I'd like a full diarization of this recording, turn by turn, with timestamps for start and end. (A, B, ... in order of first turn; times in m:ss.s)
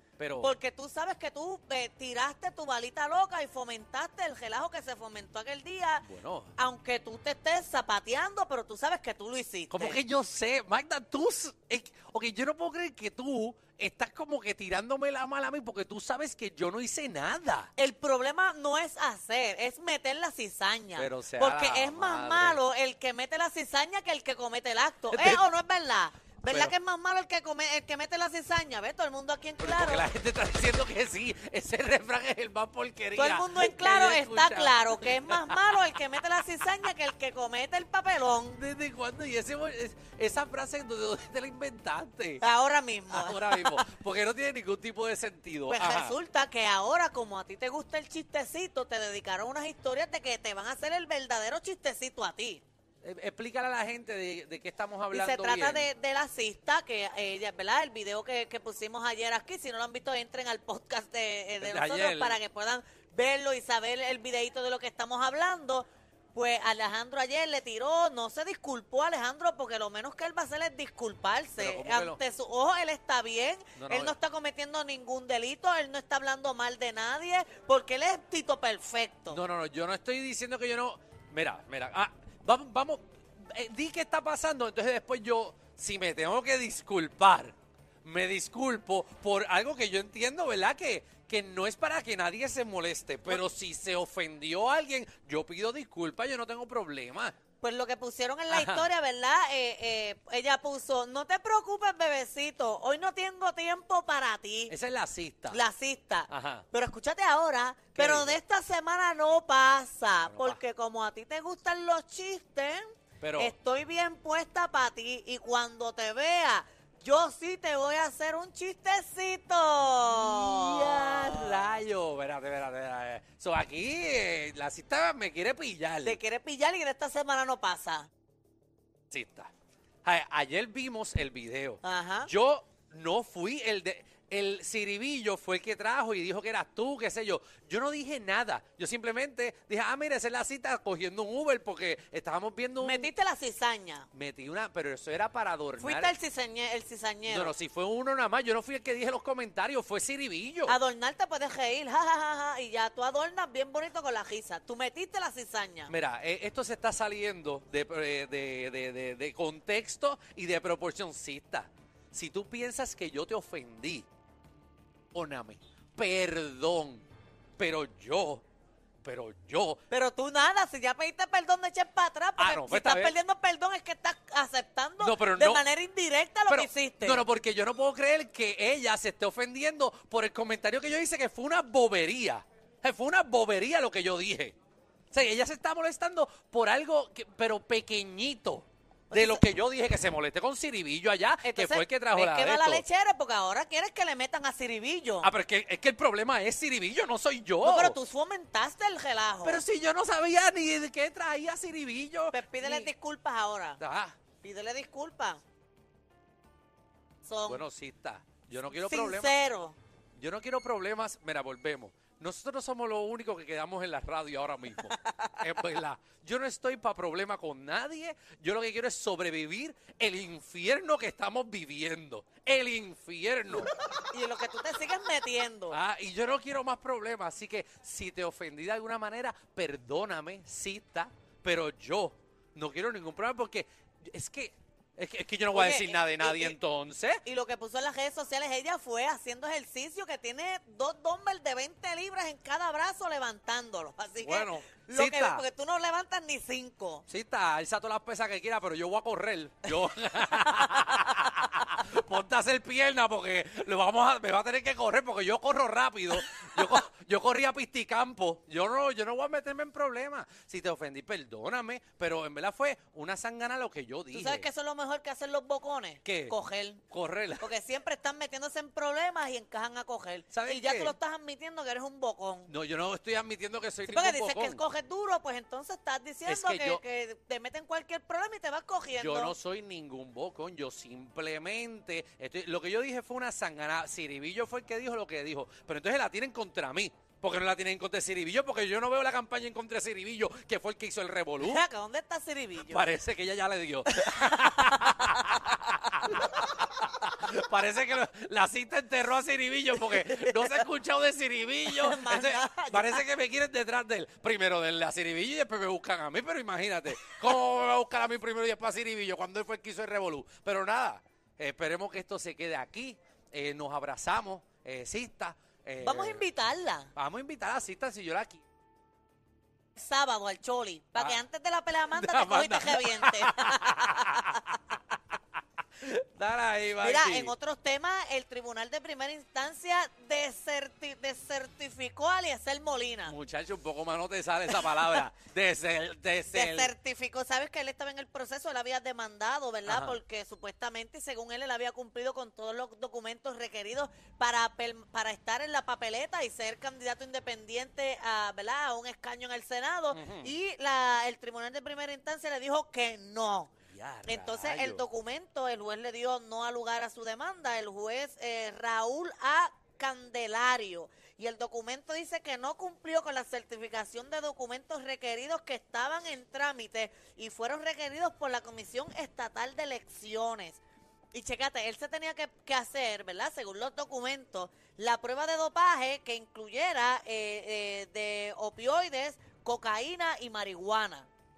0:00.2-0:00.5 A
0:00.4-0:10.0 B
0:06.0-0:06.5 A
0:09.7-0:17.7 A
0:17.8-0:30.1 B
0:21.0-0:22.6 A
0:25.1-0:25.4 A
0:26.5-0:26.7 A
0:29.6-0:35.9 A
0:33.1-0:38.6 B
0:38.5-0:42.4 A
0:42.4-0:43.8 B
0:43.1-0:46.1 A
0:45.7-0:52.6 B
0:53.0-0:55.9 A
0:55.1-1:19.4 B
1:01.6-1:02.4 A
1:11.6-1:12.2 A
1:13.7-1:14.2 A
1:19.3-1:37.4 A
1:37.6-1:44.7 B
1:38.5-1:38.9 A
1:44.7-1:45.6 A
1:45.5-1:52.8 B
1:46.3-1:46.6 A
1:47.9-1:48.4 A
1:50.2-1:50.6 A
1:53.2-1:53.5 A
1:53.4-2:01.7 B
2:00.0-2:06.2 A
2:06.0-2:08.1 B
2:09.1-2:09.5 A
2:10.0-2:23.1 A
2:11.8-2:12.3 B
2:22.8-2:24.1 B
2:24.1-2:26.1 A
2:25.8-2:27.5 B
2:27.3-2:30.8 A
2:30.6-2:35.9 B
2:35.9-2:44.1 A
2:45.1-2:47.0 A
2:47.6-2:48.4 A
2:49.0-2:49.8 A
2:49.9-2:57.2 B
2:52.4-2:53.1 A
2:55.0-2:55.6 A
2:56.5-3:04.5 A
3:05.1-3:12.8 A
3:09.1-3:09.4 B
3:11.4-3:15.3 B
3:15.2-3:18.0 A
3:17.6-3:19.6 B
3:19.4-3:22.9 A
3:22.3-3:23.8 B
3:23.8-3:24.2 A
3:24.4-3:25.4 B
3:27.2-3:27.6 B
3:27.4-3:29.3 A
3:28.7-3:29.8 B
3:30.2-3:43.7 A
3:34.8-3:35.4 B
3:43.6-3:45.8 B
3:45.7-3:57.2 A
3:55.5-3:56.5 B
3:57.2-4:07.0 B
4:04.2-4:05.4 A
4:07.1-4:24.5 A
4:10.3-4:11.0 B
4:24.1-4:26.8 B
4:26.0-4:26.4 A
4:26.9-4:27.4 A
4:27.4-4:32.5 B
4:30.3-4:30.9 A
4:32.5-4:34.6 A
4:33.9-4:39.3 B
4:36.2-4:36.8 A
4:38.9-4:51.6 A
4:51.4-4:52.8 B
4:52.7-5:16.2 A
4:54.0-4:55.4 B
4:56.2-4:56.4 B
5:01.7-5:03.0 B
5:15.8-5:16.9 B
5:16.9-5:18.4 A
5:19.8-5:24.6 B
5:21.9-5:24.8 A
5:25.8-5:27.3 A
5:26.8-5:33.1 B
5:33.0-5:36.7 A
5:34.5-5:35.0 B
5:36.3-5:53.5 B
5:39.7-5:40.0 A
5:49.9-5:50.3 A
5:53.7-5:54.8 A
5:54.0-6:10.6 B
6:11.1-6:21.1 B